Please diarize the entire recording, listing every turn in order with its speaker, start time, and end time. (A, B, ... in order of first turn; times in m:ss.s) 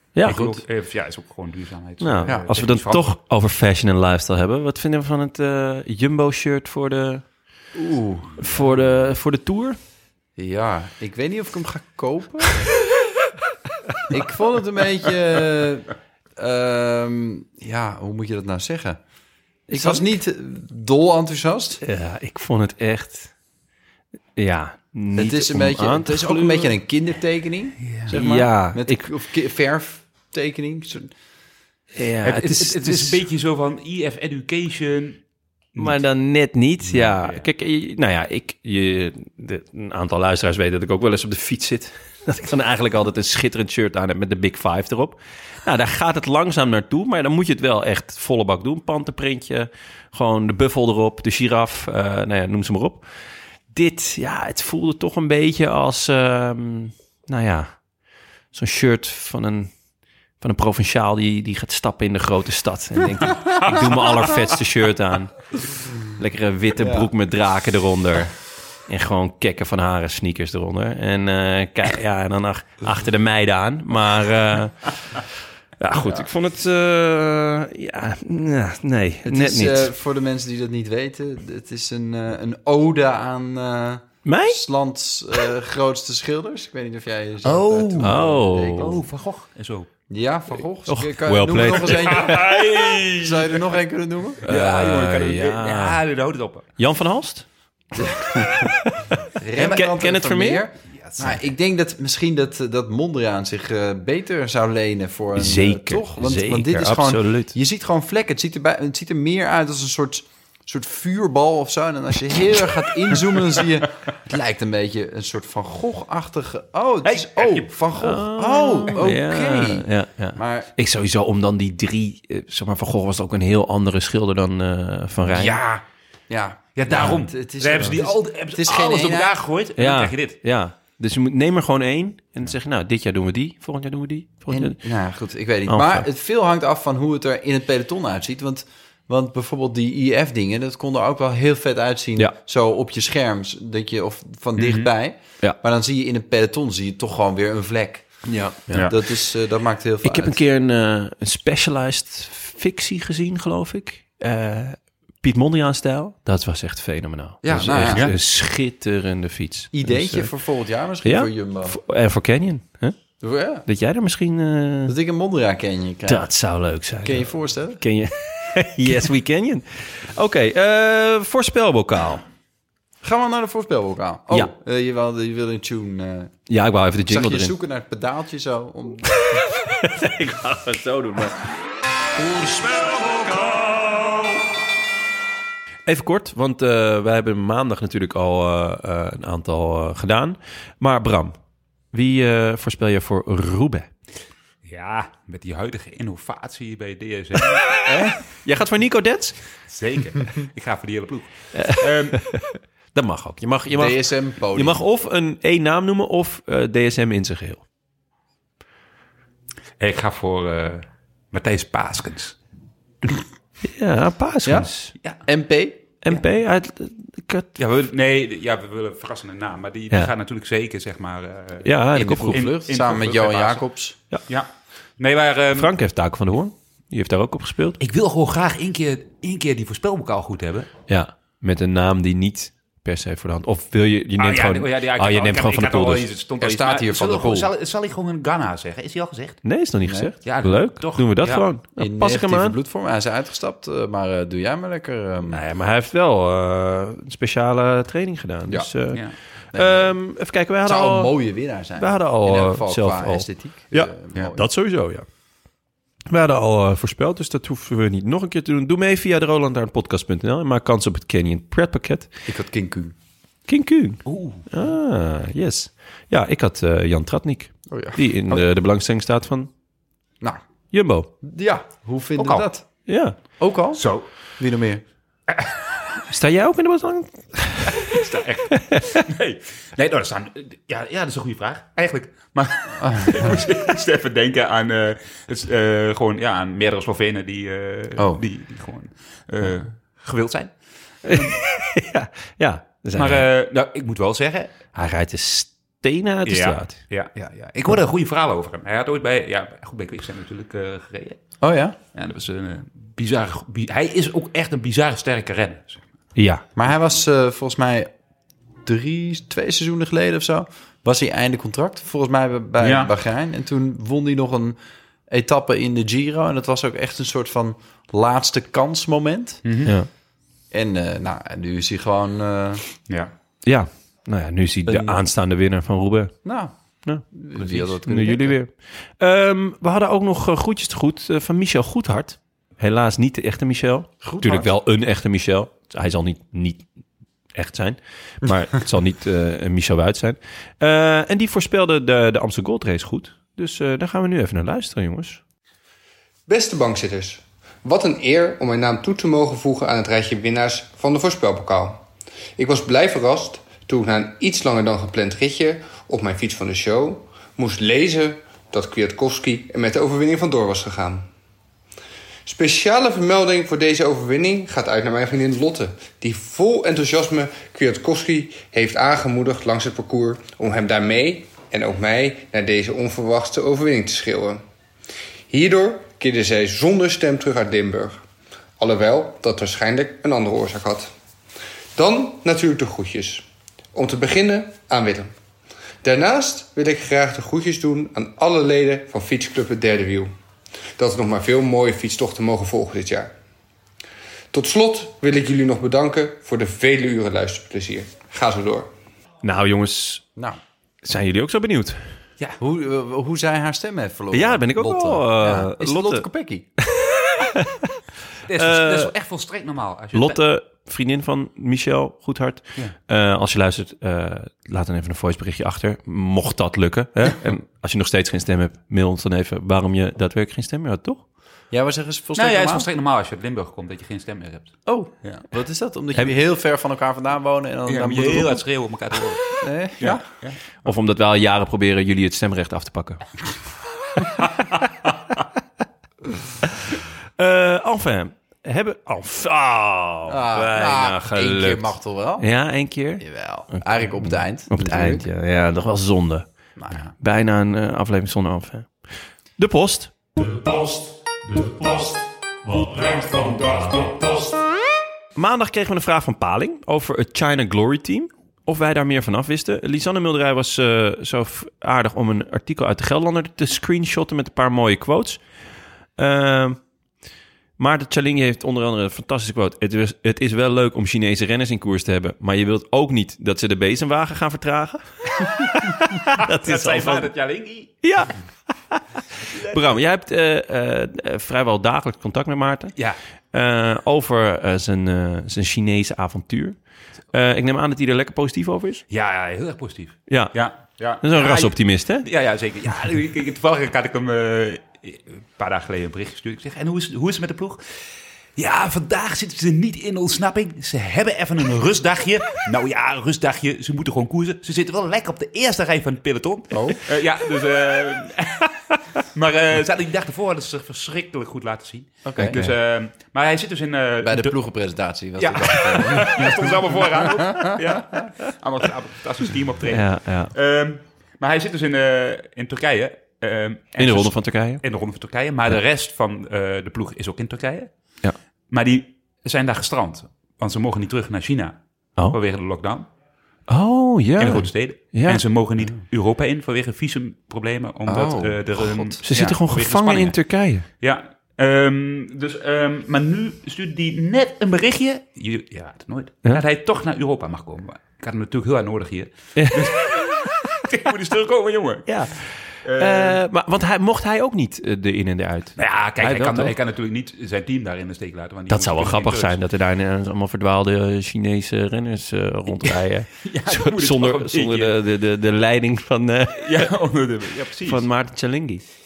0:00.1-0:00.6 A
0:00.2-0:03.2 B
0:02.0-0:07.2 A
0:07.7-0:08.7 C
0:08.4-0:09.8 A
0:10.4-0:12.7 C
0:14.1-0:19.0 C
0:19.7-0:20.0 A
0:19.7-0:21.8 C
0:21.8-0:23.3 A
0:24.4-0:26.7 A
0:25.2-0:31.1 C
0:27.8-0:28.1 B
0:28.1-0:29.1 A
0:32.0-0:33.2 A
0:32.2-0:35.2 B
0:35.7-0:36.0 B
0:35.8-0:53.0 A
0:36.9-0:37.4 B
0:53.7-0:57.8 A
0:58.5-0:59.7 A
1:00.4-1:05.5 A
1:06.1-1:15.2 A
1:06.8-1:07.1 C
1:15.8-1:19.9 A
1:16.0-1:16.2 C
1:19.2-1:29.0 C
1:24.2-1:24.6 A
1:27.4-1:29.9 B
1:28.0-1:28.9 A
1:30.1-1:34.5 C
1:30.9-1:32.5 A
1:31.8-1:33.7 B
1:34.4-1:36.7 B
1:34.4-1:36.0 A
1:36.8-1:37.4 A
1:38.0-1:38.7 C
1:38.0-1:40.6 A
1:39.4-2:00.7 C
1:41.0-1:41.4 B
1:45.4-1:47.5 A
1:57.0-1:57.7 B
1:58.0-2:05.6 A
2:05.3-2:05.8 B
2:06.3-2:09.4 C
2:06.8-2:10.4 B
2:09.8-2:14.8 A
2:14.5-2:30.4 C
2:15.7-2:16.0 A
2:24.6-2:24.9 B
2:28.3-2:28.9 A
2:30.0-2:40.3 A
2:37.4-2:38.1 C
2:37.9-2:38.1 B
2:39.7-2:41.8 C
2:41.0-2:43.0 A
2:43.2-2:43.7 C
2:43.6-2:44.9 A
2:44.9-2:46.3 C
2:46.1-2:52.2 A
2:47.0-2:47.8 C
2:53.0-2:56.4 C
2:56.5-2:57.5 A
2:57.1-2:59.4 C
2:59.3-3:01.4 A
3:02.2-3:03.6 C
3:02.6-3:04.2 A
3:05.8-3:11.4 A
3:11.9-3:13.9 A
3:14.6-3:17.7 B
3:17.9-3:18.2 C
3:17.9-3:19.4 A
3:19.7-3:22.2 B
3:21.5-3:27.6 A
3:23.7-3:24.8 C
3:29.8-3:32.4 B
3:33.6-3:34.9 A
3:35.2-3:36.2 C
3:36.0-3:37.5 A
3:37.6-3:41.7 B
3:41.6-3:42.5 A
3:41.9-3:44.0 C
3:42.3-3:43.6 B
3:44.3-3:45.7 B
3:45.5-3:47.8 A
3:47.8-3:50.7 B
3:50.9-3:56.1 A
3:54.2-3:59.4 B
3:56.4-3:57.5 C
3:59.4-4:02.6 A
3:59.8-4:00.1 C
4:00.2-4:01.5 B
4:01.8-4:05.4 C
4:05.3-4:09.0 A
4:09.5-4:10.0 C
4:09.5-4:11.1 A
4:10.6-4:14.4 C
4:11.8-4:15.0 A
4:16.1-4:22.1 A
4:22.3-4:22.9 C
4:23.5-4:29.5 A
4:24.0-4:24.5 B
4:27.7-4:28.4 C
4:30.7-4:31.1 A
4:31.2-4:32.8 C
4:32.2-4:32.5 B
4:32.9-4:33.2 A
4:33.4-4:33.8 C
4:33.7-4:34.1 B
4:34.4-4:34.8 C
4:35.3-4:36.0 B
4:36.1-4:38.0 A
4:37.7-4:51.4 B
4:42.8-4:43.3 C
4:48.0-4:48.2 C
4:51.0-4:53.3 A
4:52.9-4:54.5 B
4:54.7-4:56.8 A
4:56.2-5:01.2 B
5:01.4-5:01.8 C
5:01.9-5:05.8 B
5:06.2-5:06.4 A
5:06.6-5:07.9 C
5:08.6-5:14.6 C
5:12.6-5:12.9 B
5:15.1-5:19.5 C
5:19.4-5:19.7 B
5:20.5-5:22.6 C
5:23.4-5:26.2 A
5:24.7-5:25.0 C
5:26.2-5:26.5 C
5:26.8-5:36.7 A
5:27.1-5:28.4 C
5:34.0-5:34.5 C
5:37.3-5:45.2 A
5:46.3-5:51.8 D
5:52.4-6:01.1 D
6:02.2-6:14.4 D
6:15.3-6:18.0 D
6:18.6-6:20.9 D
6:21.8-6:25.1 D
6:25.8-6:30.1 D
6:30.8-6:33.1 D
6:34.3-6:38.7 D
6:39.2-6:40.0 A
6:40.8-6:41.8 A
6:42.4-6:46.5 C
6:44.1-6:46.0 A
6:46.6-6:47.7 A
6:48.2-6:50.2 B
6:48.4-6:48.9 A
6:49.9-7:01.0 A
7:01.5-7:02.7 C
7:02.2-7:05.2 B
7:04.6-7:08.4 C
7:07.6-7:09.2 B
7:09.4-7:10.0 C
7:09.8-7:10.7 B
7:10.6-7:13.0 A
7:16.6-7:26.3 A
7:20.1-7:22.3 C
7:23.0-7:25.1 C
7:26.6-7:26.9 C
7:27.0-7:28.7 A
7:29.4-7:30.0 A
7:30.2-7:34.4 E
7:35.2-7:45.2 A
7:46.0-7:46.6 A
7:47.6-7:57.1 A
7:56.1-7:57.8 B
7:57.8-7:58.2 A
7:58.7-8:02.7 A
7:59.3-7:59.6 B
8:03.3-8:06.6 A
8:07.1-8:08.8 A
8:08.9-8:17.7 B
8:10.1-8:10.4 A
8:11.0-8:12.1 A
8:18.4-8:34.3 B
8:26.5-8:26.8 C
8:32.0-8:32.4 C
8:32.2-8:32.5 A
8:34.0-8:37.6 C
8:35.2-8:47.7 B
8:39.7-8:40.3 A
8:43.8-8:44.6 A
8:48.5-8:52.9 B
8:53.5-8:55.2 A
8:54.2-9:00.2 B
8:57.8-8:59.0 C
8:59.0-9:00.6 A
9:00.7-9:11.9 B
9:09.3-9:09.7 A
9:11.9-9:16.5 A
9:12.6-9:13.2 B
9:15.6-9:19.4 B
9:18.5-9:26.7 A
9:23.2-9:24.8 B
9:26.4-9:27.8 B
9:27.6-9:28.6 A